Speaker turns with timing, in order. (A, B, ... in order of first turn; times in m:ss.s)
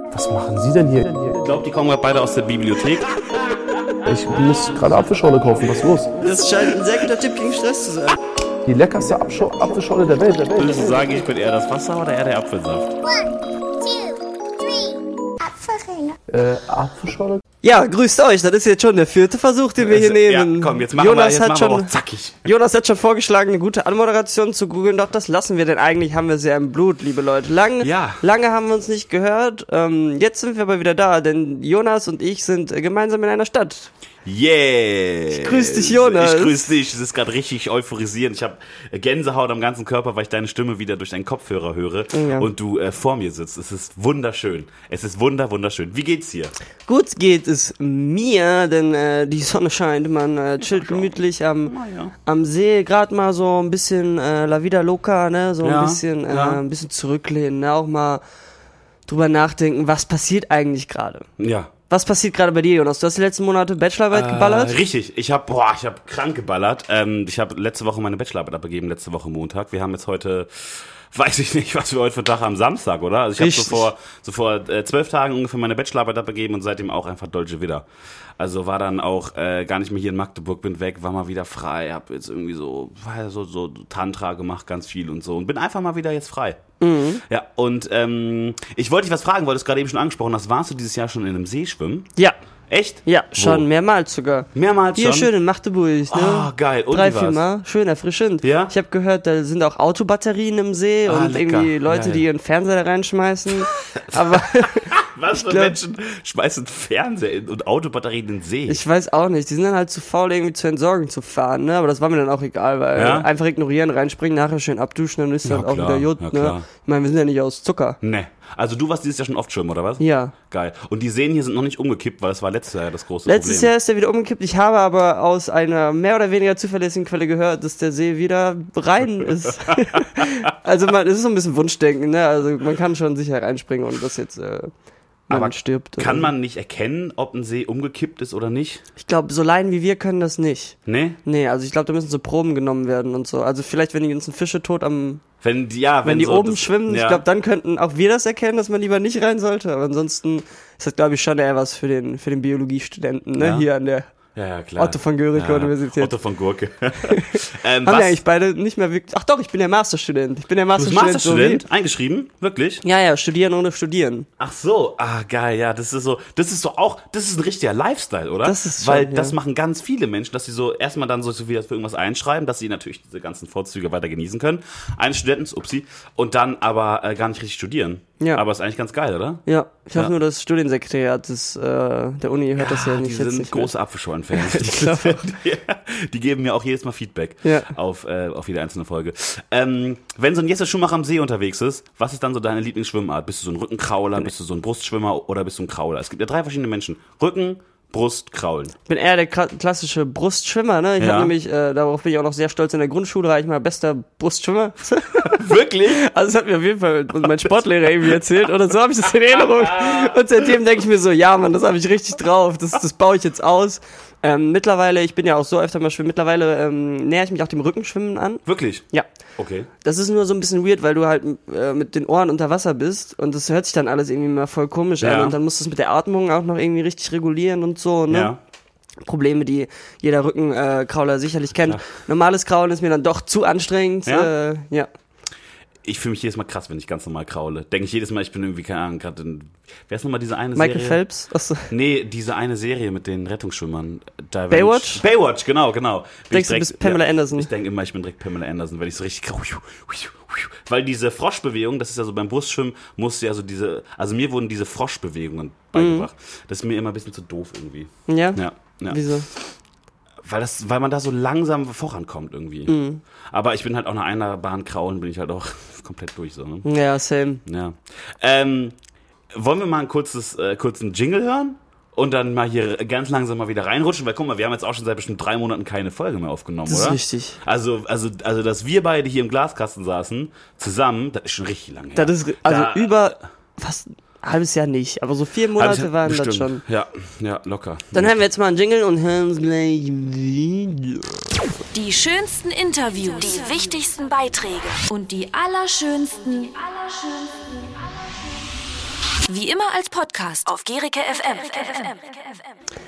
0:00.1-0:01.4 A
0:01.4-0:03.1 B
0:04.0-0:06.2 A
0:06.2-0:08.2 C
0:08.7-0:11.1 A
0:10.6-0:13.0 B
0:13.0-0:16.2 D
0:16.3-0:17.4 A
0:17.6-0:21.9 C
0:19.8-0:22.5 B
0:22.4-0:33.9 C
0:27.8-0:28.2 B
0:34.2-0:46.5 B
0:35.3-0:36.7 C
0:42.1-0:42.5 C
0:46.9-0:51.7 C
0:50.6-0:52.1 B
0:52.2-0:58.2 C
0:55.6-0:56.6 B
0:59.1-1:01.3 C
1:01.4-1:01.7 B
1:01.9-1:04.8 C
1:04.1-1:17.8 B
1:13.4-1:13.9 C
1:18.4-1:26.6 B
1:26.8-1:27.2 C
1:27.2-1:32.1 B
1:32.7-1:33.6 B
1:33.0-1:45.7 C
1:34.5-1:35.3 B
1:36.1-1:37.4 B
1:38.4-1:38.7 B
1:41.0-1:42.2 B
1:43.6-1:48.8 B
1:48.7-1:58.0 C
1:53.0-1:53.3 B
1:55.4-1:56.6 B
1:58.0-2:03.7 B
2:00.0-2:00.3 C
2:03.2-2:14.7 C
2:10.0-2:10.4 B
2:15.3-2:16.3 C
2:15.3-2:18.8 B
2:19.0-2:25.2 C
2:20.8-2:21.2 B
2:25.4-2:27.2 B
2:26.0-2:34.1 C
2:33.4-2:33.7 B
2:34.3-2:38.2 B
2:34.8-2:36.1 C
2:37.0-2:41.6 C
2:40.8-2:42.8 B
2:42.8-2:44.3 C
2:44.4-2:59.4 B
2:48.4-2:49.3 C
2:59.4-3:03.7 C
3:02.6-3:18.7 B
3:04.3-3:05.2 C
3:07.4-3:07.7 C
3:18.9-3:39.0 C
3:21.0-3:21.3 B
3:25.2-3:26.1 B
3:27.2-3:27.5 B
3:29.4-3:30.1 B
3:38.4-3:38.8 B
3:39.4-3:39.7 B
3:39.8-3:48.3 C
3:45.0-3:45.4 B
3:48.1-3:48.4 B
3:49.0-3:54.9 C
3:54.0-3:54.3 B
3:55.8-4:01.0 B
4:00.5-4:01.7 C
4:01.7-4:19.5 B
4:04.5-4:05.0 C
4:06.3-4:07.5 C
4:15.7-4:16.1 C
4:18.1-4:19.3 C
4:20.2-4:22.8 B
4:22.7-4:23.0 C
4:23.3-4:26.6 B
4:26.6-4:27.4 C
4:27.4-4:28.8 B
4:29.3-4:43.2 B
4:36.7-4:37.4 C
4:42.0-4:46.6 C
4:45.6-4:48.1 B
4:47.9-4:51.1 C
4:51.7-4:58.4 E
4:59.2-5:02.4 E